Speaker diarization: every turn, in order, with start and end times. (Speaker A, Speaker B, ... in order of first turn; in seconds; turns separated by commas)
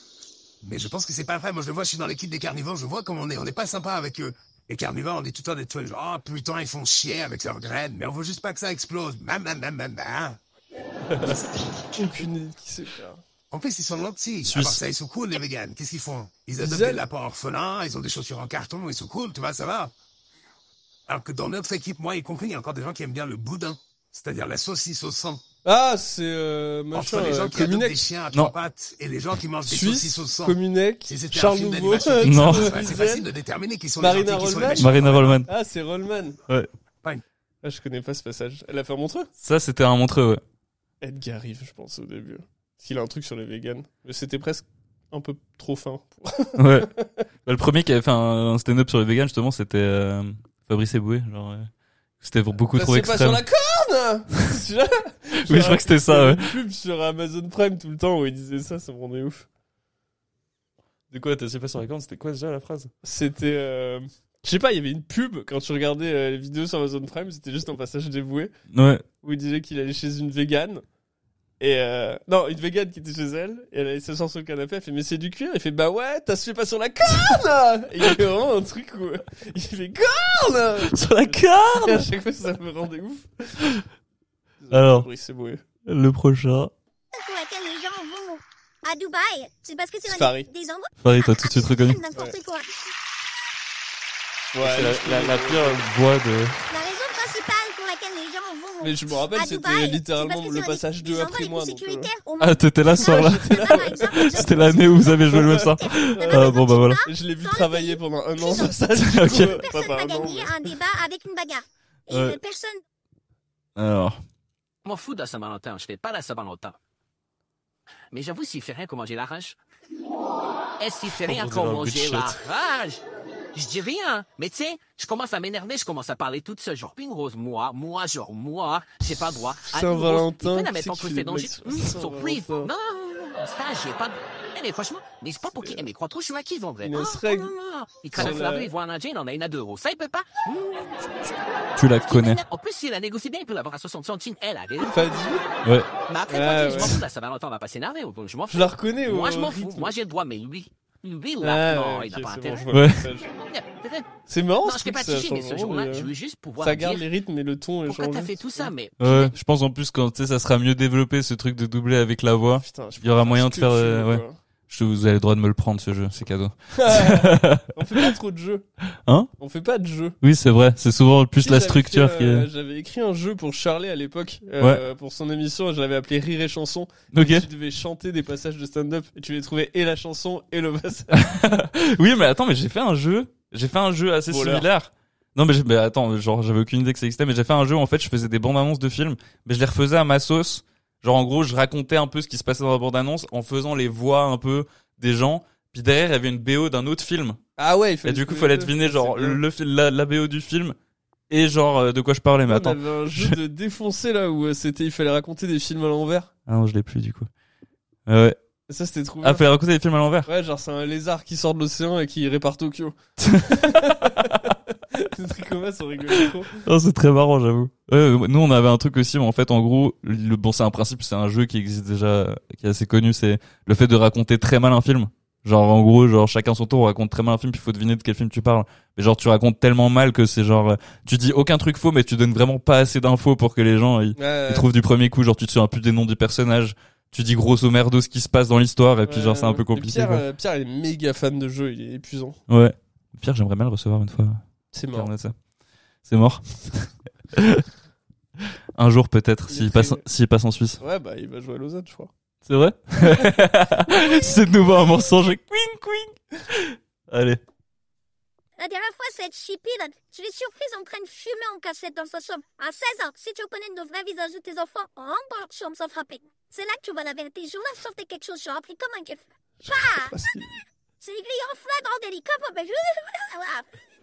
Speaker A: 0.6-10.4, Speaker B: 11.9-13.2, Speaker A: 13.5-19.9, Speaker C: 14.4-14.8, Speaker B: 16.6-17.0, Speaker A: 21.1-25.4, Speaker B: 25.6-28.0, Speaker A: 26.9-35.4, Speaker B: 29.6-33.2, Speaker C: 32.2-32.8, Speaker B: 34.0-36.4, Speaker C: 34.8-35.5, Speaker B: 37.6-39.3, Speaker C: 39.4-40.4, Speaker B: 41.0-47.2, Speaker C: 46.6-46.9, Speaker C: 47.5-51.7, Speaker C: 52.2-53.4, Speaker B: 52.7-59.5, Speaker C: 55.5-56.5, Speaker C: 61.1-62.9, Speaker B: 63.0-68.5, Speaker C: 68.7-69.0, Speaker B: 69.2-70.8, Speaker B: 71.6-83.6, Speaker C: 80.9-82.1, Speaker B: 84.6-85.6, Speaker C: 84.7-85.1, Speaker C: 85.9-86.7, Speaker D: 87.1-92.7, Speaker B: 90.1-90.5, Speaker C: 91.0-92.0, Speaker B: 94.5-95.8, Speaker C: 94.6-96.6, Speaker D: 96.7-112.8, Speaker B: 98.8-102.1, Speaker C: 102.4-107.0, Speaker B: 103.0-110.5, Speaker C: 109.0-109.6, Speaker C: 112.1-112.4, Speaker C: 113.8-114.2, Speaker E: 114.8-116.8, Speaker E: 118.1-119.6, Speaker E: 120.8-123.0, Speaker C: 121.2-122.4, Speaker E: 123.5-141.1, Speaker B: 129.6-132.7, Speaker B: 135.4-135.8, Speaker B: 136.8-137.5, Speaker B: 138.1-138.7, Speaker C: 141.8-142.4, Speaker E: 142.1-145.2, Speaker B: 144.9-145.4, Speaker E: 146.1-152.7, Speaker B: 146.3-147.0, Speaker B: 148.5-149.9, Speaker B: 151.4-153.3, Speaker C: 152.7-153.1, Speaker E: 153.4-157.1, Speaker B: 154.3-156.1, Speaker B: 156.6-158.7, Speaker E: 157.9-159.3, Speaker C: 159.0-168.1, Speaker B: 162.6-164.4, Speaker B: 166.7-168.7, Speaker B: 169.4-170.2, Speaker C: 170.2-172.5, Speaker B: 171.4-181.2, Speaker C: 177.1-177.5, Speaker C: 181.1-197.4, Speaker B: 184.3-184.7, Speaker B: 197.6-199.4, Speaker C: 198.0-200.8, Speaker C: 201.3-203.4, Speaker B: 202.5-206.3, Speaker C: 206.5-207.3, Speaker C: 208.1-208.4, Speaker B: 208.7-209.5, Speaker C: 209.2-210.3, Speaker B: 210.3-216.6, Speaker C: 213.2-214.5, Speaker C: 216.5-240.2, Speaker B: 234.2-234.7, Speaker B: 239.1-242.4, Speaker C: 242.5-245.3, Speaker B: 244.7-245.1, Speaker C: 246.1-247.7, Speaker C: 248.8-250.8, Speaker B: 249.5-250.0, Speaker B: 250.8-252.1, Speaker C: 252.4-257.4, Speaker B: 253.0-253.3, Speaker D: 258.6-270.1, Speaker B: 269.6-270.6, Speaker D: 271.0-273.7